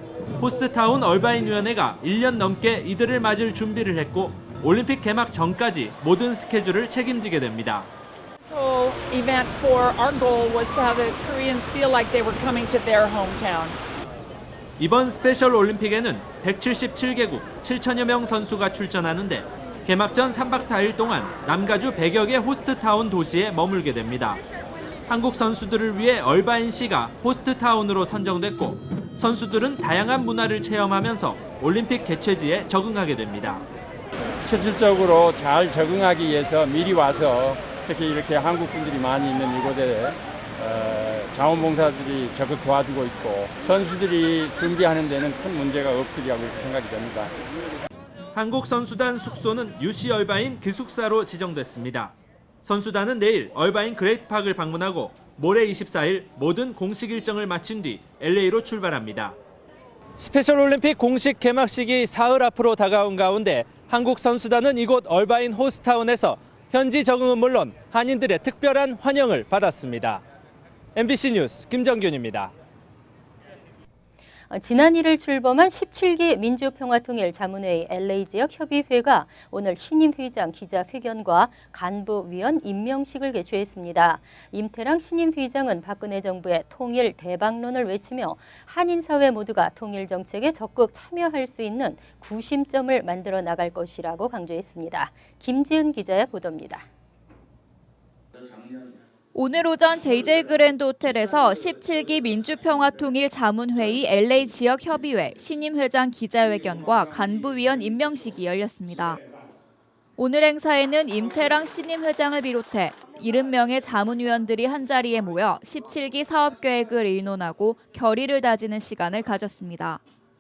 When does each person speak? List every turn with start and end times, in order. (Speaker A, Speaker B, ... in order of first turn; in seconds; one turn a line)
Speaker A: 0.4-7.9
Speaker B: 8.4-13.8
Speaker A: 14.8-24.4
Speaker A: 25.1-33.6
Speaker C: 34.4-47.3
Speaker A: 48.3-59.4
Speaker A: 60.2-70.2
Speaker A: 71.0-72.5
Speaker D: 74.5-96.8
Speaker E: 99.3-109.2
Speaker E: 110.2-120.0